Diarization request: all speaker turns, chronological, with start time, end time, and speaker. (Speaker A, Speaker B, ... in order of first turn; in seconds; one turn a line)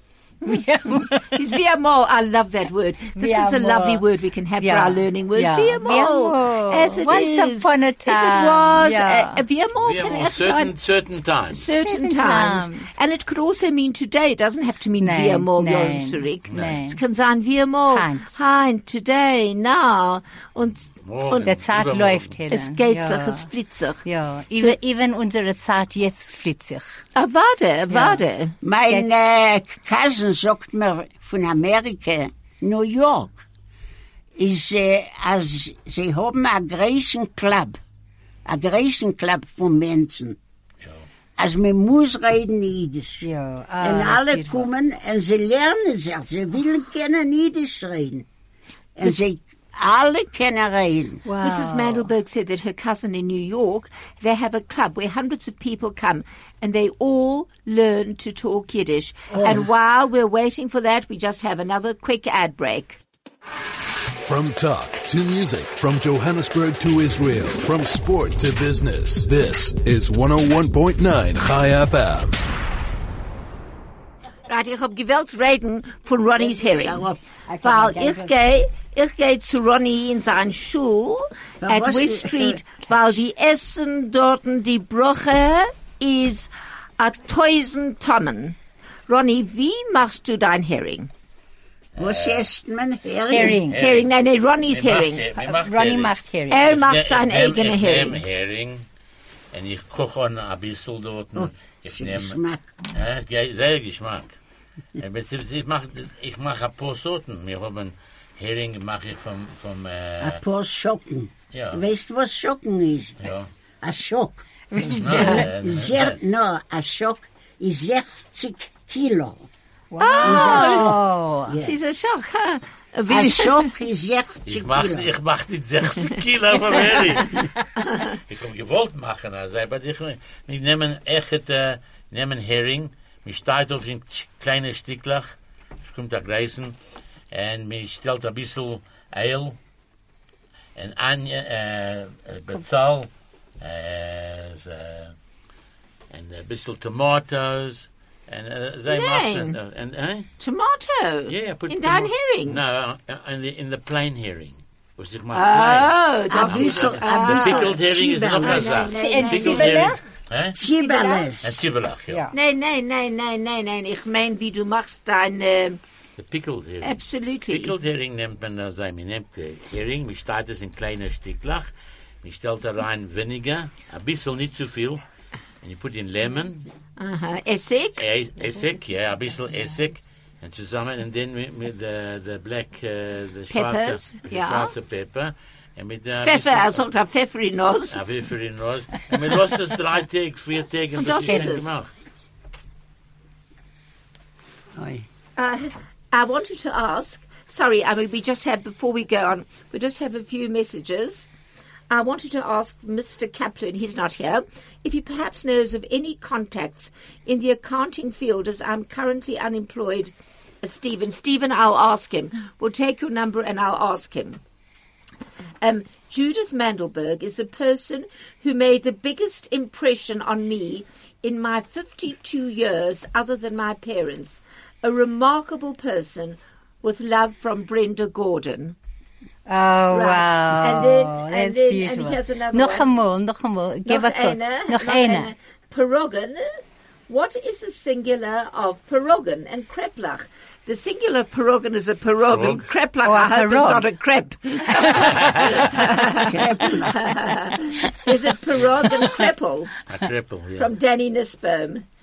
Speaker A: 0.5-1.3
Speaker B: 1.3-10.7
Speaker A: 3.1-4.0
Speaker A: 4.6-9.4
Speaker C: 9.8-11.7
Speaker B: 11.5-21.5
Speaker A: 11.8-12.9
Speaker A: 15.0-17.0
Speaker C: 16.5-16.8
Speaker A: 17.9-18.3
Speaker C: 21.0-22.3
Speaker A: 21.4-23.5
Speaker B: 22.5-24.0
Speaker A: 24.1-26.9
Speaker B: 27.1-28.6
Speaker A: 27.9-28.2
Speaker D: 28.6-33.5
Speaker D: 34.4-37.8
Speaker D: 38.5-40.4
Speaker D: 41.4-43.2
Speaker A: 43.2-44.7
Speaker D: 43.8-48.3
Speaker D: 49.0-51.2
Speaker A: 51.2-52.1
Speaker B: 51.4-63.0
Speaker D: 59.3-59.7
Speaker E: 64.2-72.3
Speaker B: 74.5-77.0
Speaker D: 76.4-77.2
Speaker A: 77.5-78.4
Speaker B: 77.6-88.5
Speaker D: 81.6-82.8
Speaker B: 89.1-91.1
Speaker C: 92.0-92.5
Speaker D: 92.0-93.6
Speaker A: 93.3-93.8
Speaker C: 93.7-94.1
Speaker B: 93.7-95.3
Speaker C: 94.7-96.1
Speaker A: 95.6-96.6
Speaker B: 96.5-98.2
Speaker C: 96.6-98.8
Speaker C: 99.5-102.4
Speaker D: 101.3-102.6
Speaker C: 102.9-104.3
Speaker C: 105.0-110.4
Speaker D: 110.2-113.2
Speaker C: 111.5-111.8
Speaker C: 113.2-113.5
Speaker D: 113.8-114.5
Speaker A: 114.7-115.4
Speaker C: 114.9-116.2
Speaker D: 115.0-119.5
Speaker B: 115.2-115.4
Speaker A: 119.9-121.5
Speaker B: 120.0-120.9
Speaker D: 120.2-121.8
Speaker B: 121.6-123.7
Speaker D: 123.1-125.1
Speaker C: 124.5-127.5
Speaker C: 128.1-136.7
Speaker C: 137.3-139.6
Speaker C: 140.8-143.1
Speaker C: 143.6-145.1
Speaker C: 146.1-150.3
Speaker B: 148.9-149.6
Speaker B: 150.4-152.6
Speaker C: 151.3-160.6
Speaker B: 155.3-157.8
Speaker D: 156.3-159.8
Speaker B: 158.4-159.9
Speaker A: 158.9-160.0
Speaker D: 160.6-161.6
Speaker B: 160.8-161.3
Speaker C: 161.4-162.2
Speaker B: 162.3-165.8
Speaker C: 166.2-167.0
Speaker B: 166.8-167.7
Speaker C: 167.5-171.7
Speaker C: 172.2-175.0
Speaker C: 175.6-176.6
Speaker B: 177.0-178.0
Speaker C: 178.0-186.9
Speaker B: 183.5-184.7
Speaker B: 186.2-188.0
Speaker C: 187.9-191.9
Speaker B: 191.0-191.7
Speaker D: 194.7-195.1
Speaker B: 195.4-201.3
Speaker B: 201.9-214.4
Speaker B: 215.6-228.8
Speaker A: 229.5-235.3
Speaker B: 229.9-232.9
Speaker B: 233.9-249.7
Speaker C: 242.3-242.7
Speaker A: 243.0-243.8
Speaker C: 245.0-245.6
Speaker D: 245.9-247.1
Speaker C: 249.9-250.7
Speaker B: 250.6-251.8